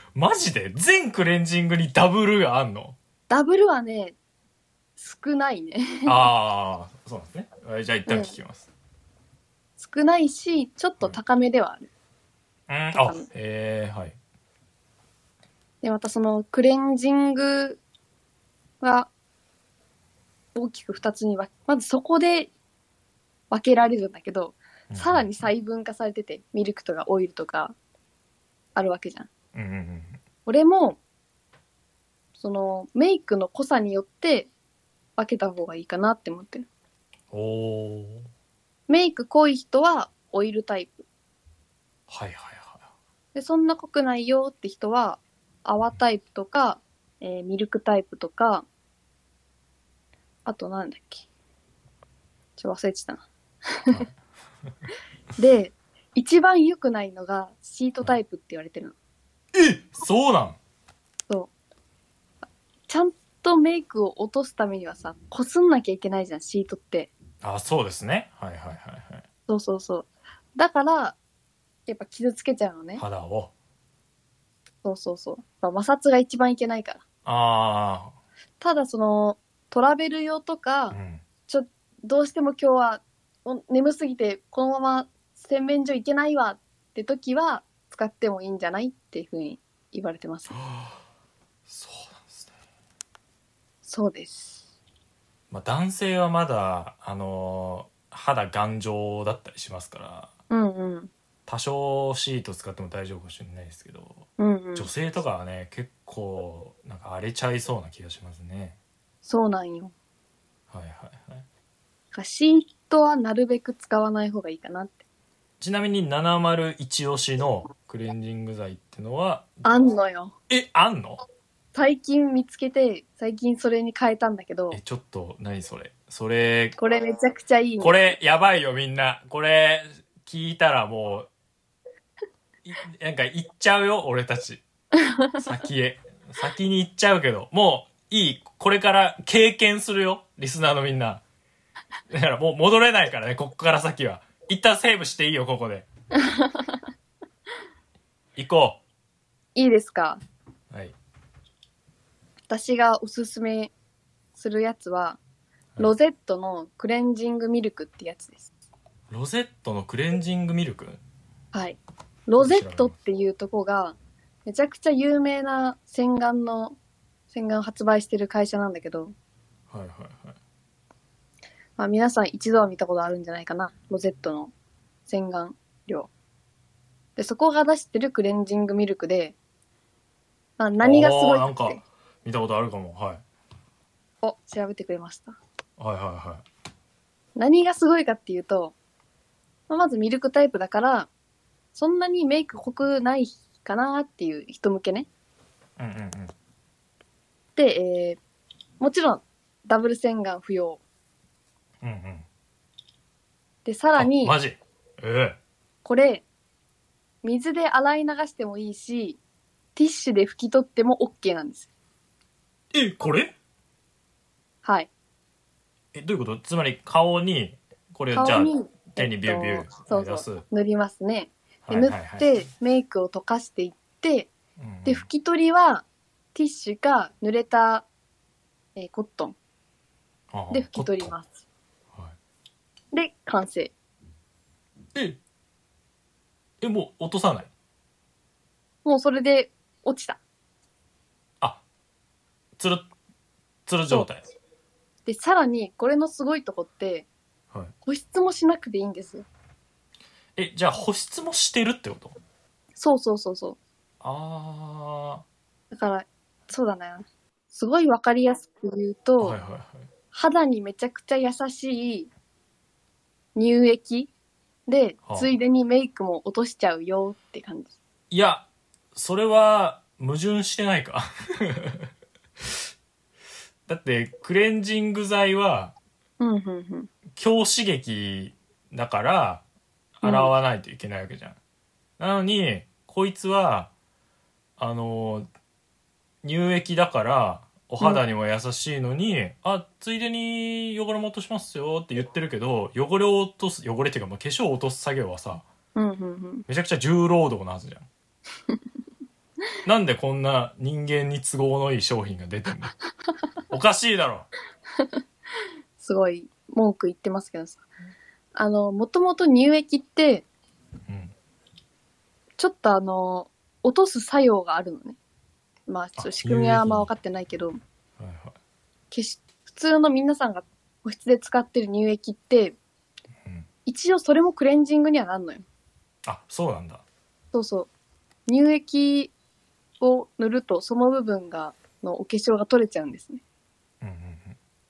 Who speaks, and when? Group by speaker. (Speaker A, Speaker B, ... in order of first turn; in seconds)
Speaker A: 0.1-3.0, 6.1-8.7, 12.7-14.2, 24.9-25.5, 29.5-30.2, 37.3-38.3, 42.1-42.9, 59.5-60.6, 67.4-69.2, 73.0-73.5, 77.2-78.1, 80.9-81.2, 90.5-91.0, 91.7-92.5, 95.5-100.3, 101.5-108.8, 110.7-111.5, 115.6-119.6, 120.5-121.2, 124.7-126.8, 127.8-131.3, 132.6-134.6, 135.4-141.2, 142.1-145.9, 148.4-148.8, 159.1-161.0, 162.4-163.0, 169.7-170.4, 180.8-183.2, 185.8-186.4, 195.8-196.3, 201.8-202.2, 204.0-205.4, 212.7-213.3, 215.9-220.4, 221.7-222.5, 224.6-225.1, 230.3-231.1, 236.6-237.5, 242.6-242.9, 243.7-244.3, 250.4-252.2, 254.0-255.2, 259.2-259.9, 265.1-265.3, 268.1-271.9, 273.7-275.8, 277.1-279.4, 280.0-281.4, 282.0-283.7, 284.6-285.3, 286.2-295.4, 296.5-297.9, 299.6-302.7, 303.5-304.3, 310.9-311.1, 316.0-316.9, 318.0-318.4, 326.1-326.8, 333.8-334.4
Speaker B: 3.3-4.2, 5.0-6.3, 8.1-8.3, 9.8-11.9, 13.0-13.3, 15.8-17.8, 18.8-19.1, 20.6-22.5, 23.5-27.8, 28.8-29.3, 30.5-31.0, 32.4-34.5, 35.2-36.6, 38.9-41.0, 43.3-48.6, 50.5-51.2, 52.6-54.0, 55.4-59.0, 62.9-67.1, 69.5-71.2, 71.9-73.0, 74.8-77.0, 78.6-81.0, 81.5-90.6, 93.9-94.6, 100.5-101.1, 104.4-104.9, 109.2-109.9, 112.1-115.0, 119.6-120.3, 121.7-124.8, 126.8-128.2, 135.0-135.4, 146.2-146.8, 149.6-150.2, 152.5-153.7, 154.4-155.2, 155.8-158.5, 161.5-166.8, 167.3-169.1, 171.8-174.5, 175.1-176.1, 177.2-179.3, 180.6-181.8, 184.2-185.4, 187.4-188.8, 189.7-191.1, 191.8-195.1, 197.6-198.2, 198.8-200.8, 203.6-204.4, 205.8-206.2, 207.2-209.2, 209.8-211.7, 214.6-214.9, 218.1-224.3, 224.8-227.9, 228.8-229.4, 230.5-231.4, 232.9-233.7, 238.8-240.2, 245.1-247.1, 247.8-249.2, 252.8-253.6, 255.7-259.4, 260.1-262.1, 263.4-264.1, 264.7-267.7, 276.2-276.9, 280.0-280.3, 295.8-296.4, 305.8-307.6, 308.4-310.3, 312.4-315.0, 315.7-317.6, 318.9-322.6, 323.6-325.4, 327.3-327.7, 328.3-329.1, 329.8-333.2